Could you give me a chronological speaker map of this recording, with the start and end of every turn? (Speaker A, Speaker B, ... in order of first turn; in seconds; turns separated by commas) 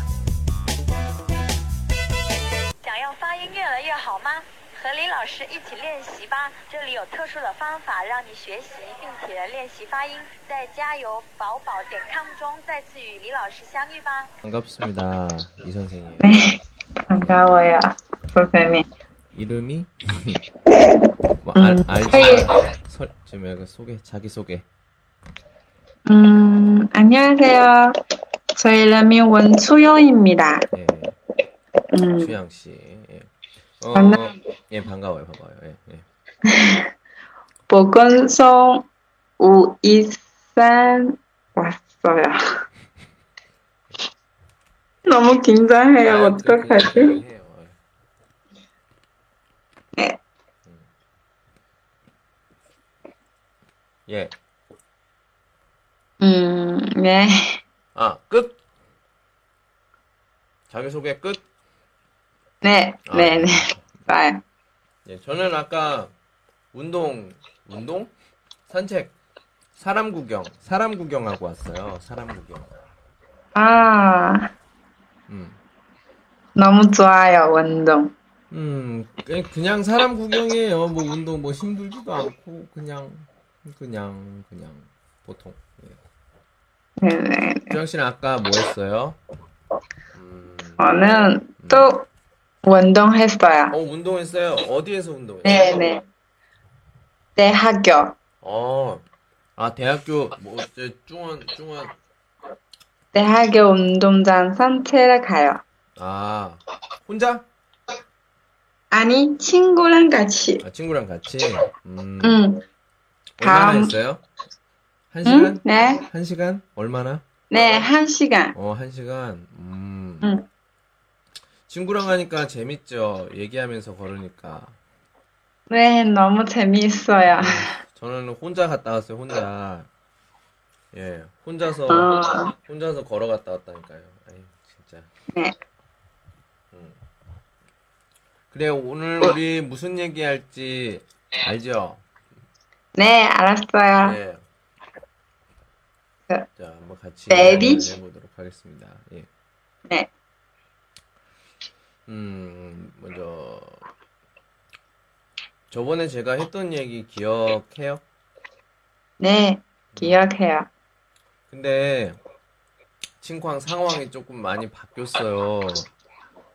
Speaker A: 2.8-14.3, Speaker B: 14.4-16.3, Speaker C: 16.2-16.6, Speaker C: 17.1-18.9, Speaker B: 19.3-20.4, Speaker B: 21.4-24.6, Speaker C: 21.5-22.5, Speaker C: 26.1-27.9, Speaker C: 28.5-30.7, Speaker B: 30.7-31.1, Speaker C: 31.9-32.3, Speaker B: 32.2-33.3, Speaker B: 33.8-36.0, Speaker C: 33.9-34.2, Speaker C: 36.5-36.9, Speaker C: 37.7-38.9, Speaker C: 39.4-42.4, Speaker C: 45.0-47.2, Speaker B: 46.0-47.8, Speaker B: 54.1-54.3, Speaker C: 56.2-57.6, Speaker B: 57.9-58.6, Speaker B: 60.7-61.4, Speaker C: 62.6-64.4, Speaker B: 63.1-63.9, Speaker B: 65.0-66.1, Speaker B: 66.7-68.1, Speaker B: 68.7-69.1, Speaker B: 69.7-72.7, Speaker C: 73.5-74.5, Speaker B: 75.3-75.6, Speaker C: 76.5-78.1, Speaker B: 78.5-86.0, Speaker C: 87.0-87.8, Speaker B: 87.7-89.2, Speaker B: 90.1-91.0, Speaker C: 90.8-92.0, Speaker B: 91.6-91.9, Speaker C: 92.6-93.7, Speaker B: 93.7-95.8, Speaker C: 95.4-96.0, Speaker C: 97.3-98.2, Speaker B: 98.4-99.0, Speaker B: 99.6-101.9, Speaker C: 103.1-105.6, Speaker B: 106.0-107.4, Speaker C: 108.9-110.6, Speaker B: 110.6-112.4, Speaker C: 112.2-112.6, Speaker B: 113.4-114.2, Speaker C: 113.4-113.9, Speaker B: 115.1-117.9, Speaker C: 115.2-116.0, Speaker C: 117.5-118.5, Speaker B: 118.5-120.3, Speaker B: 121.7-124.8, Speaker C: 125.7-127.7, Speaker B: 127.4-129.9, Speaker B: 130.9-135.1, Speaker C: 131.9-132.5, Speaker B: 136.7-137.0, Speaker B: 138.5-142.0, Speaker C: 142.9-144.2, Speaker B: 144.0-144.4, Speaker B: 146.6-149.3, Speaker C: 147.3-147.9, Speaker B: 152.1-153.8, Speaker B: 155.7-158.0, Speaker C: 159.2-160.7, Speaker B: 159.9-160.2, Speaker B: 161.5-162.2, Speaker B: 163.2-165.9